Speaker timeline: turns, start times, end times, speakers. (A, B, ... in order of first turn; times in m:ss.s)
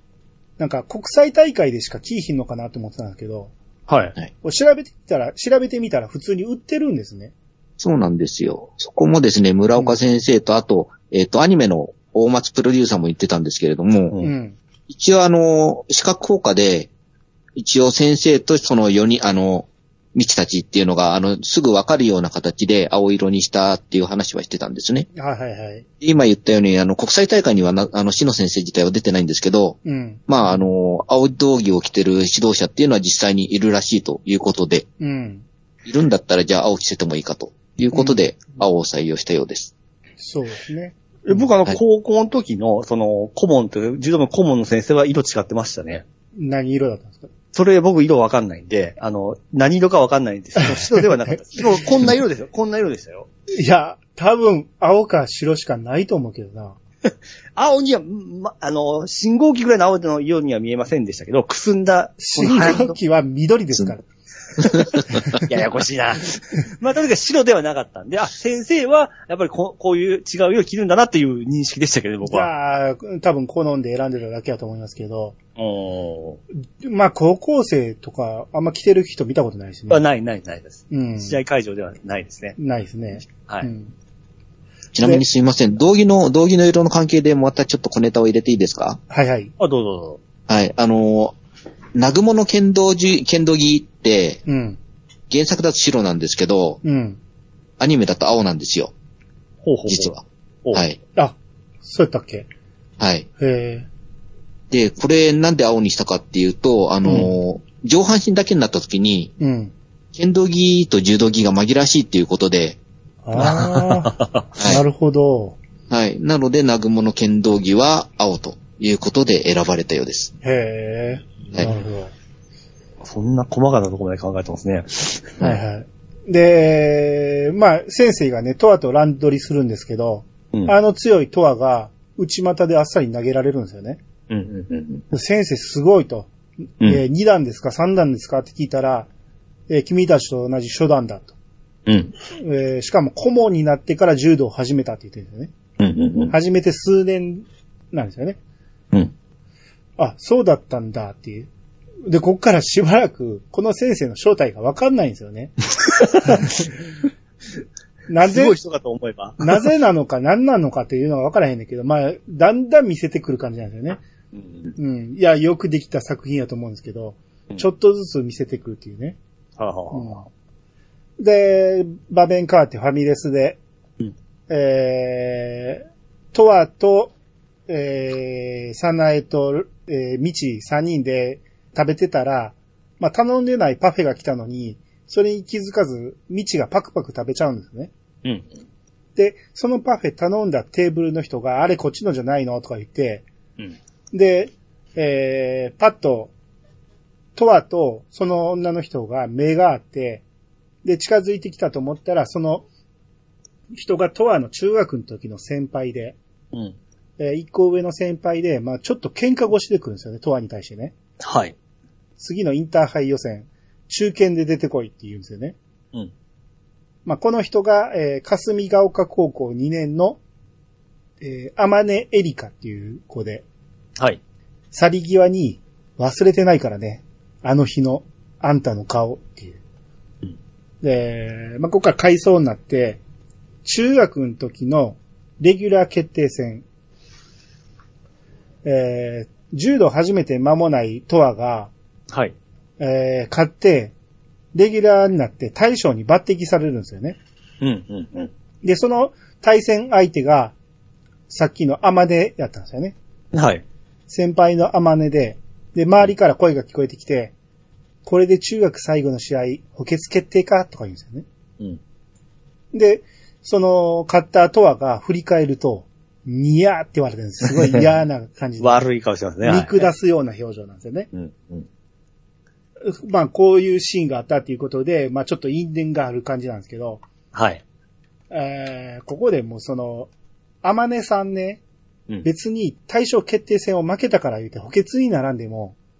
0:00.6-0:03.5 A
0:03.9-0:04.2 B
0:04.4-0:07.3 A
0:07.8-0:14.2 C
0:14.2-0:14.6 A
0:14.9-0:16.9 C
0:17.6-0:25.1 C
0:25.1-0:25.8 A
0:26.0-0:34.8 C
0:29.8-0:30.2 A
0:35.0-0:35.4 A
0:35.8-0:39.7 C
0:40.2-0:41.0 A
0:41.2-0:46.0 B
0:46.4-0:47.3 A
0:47.5-0:53.3 B
0:50.6-0:51.8 A
0:53.5-0:56.8 A
0:57.6-1:03.0 B
1:02.2-1:04.0 A
1:04.7-1:12.5 B
1:05.1-1:05.4 A
1:12.2-1:15.4 A
1:15.6-1:16.4 B
1:16.8-1:20.0 A
1:19.9-1:22.6 B
1:20.9-1:21.4 A
1:22.6-1:23.9 A
1:24.9-1:29.0 C
1:29.1-1:29.5 A
1:29.6-1:30.2 B
1:30.5-1:31.3 C
1:31.9-1:34.4 C
1:34.4-1:34.8 A
1:35.3-1:36.8 C
1:36.8-1:37.2 A
1:37.8-1:38.9 C
1:39.6-1:40.8 B
1:39.9-1:40.2 C
1:40.7-1:41.0 C
1:41.2-1:42.5 A
1:43.0-1:43.3 C
1:43.4-1:43.9 A
1:44.7-1:49.3 C
1:47.0-1:47.3 A
1:49.4-1:49.7 A
1:50.1-1:52.8 C
1:53.2-1:55.6 A
1:53.4-1:54.4 B
1:54.6-1:54.8 C
1:55.9-2:00.3 C
2:00.4-2:02.1 A
2:03.0-2:05.4 B
2:05.4-2:14.0 A
2:14.3-2:15.0 B
2:15.1-2:16.3 A
2:16.8-2:19.1 A
2:19.7-2:21.3 A
2:21.9-2:22.1 B
2:22.4-2:25.5 A
2:25.8-2:26.3 B
2:26.3-2:28.4 A
2:30.0-2:31.5 A
2:32.0-2:35.5 A
2:35.9-2:36.6 B
2:36.2-2:36.7 A
2:38.1-2:38.6 A
2:38.2-2:39.6 B
2:39.4-2:44.0 A
2:44.3-2:44.7 B
2:44.8-2:49.2 A
2:49.6-2:50.2 B
2:49.9-2:50.2 A
2:51.2-2:53.6 A
2:54.5-2:57.1 A
2:57.7-3:07.9 A
3:09.2-3:13.2 A
3:14.1-3:16.3 A
3:17.4-3:20.2 A
3:20.8-3:22.6 A
3:23.7-3:26.2 A
3:27.2-3:30.9 A
3:31.2-3:31.5 B
3:32.2-3:35.6 A
3:37.0-3:40.2 A
3:41.2-3:43.4 A
3:44.7-3:49.6 A
3:50.8-3:53.0 A
3:53.6-3:56.6 A
3:58.6-4:01.7 A
4:02.8-4:03.9 A
4:04.5-4:07.2 A
4:07.6-4:08.3 B
4:08.6-4:10.5 A
4:11.3-4:12.9 A
4:13.3-4:13.6 B
4:14.1-4:17.3 A
4:18.0-4:21.2 A
4:22.7-4:28.8 A
4:27.5-4:27.8 B
4:28.6-4:29.9 B
4:29.4-4:31.1 A
4:31.1-4:31.7 B
4:32.8-4:37.0 A
4:37.3-4:37.6 B
4:38.3-4:40.1 A
4:40.6-4:41.6 A
4:42.2-4:45.7 A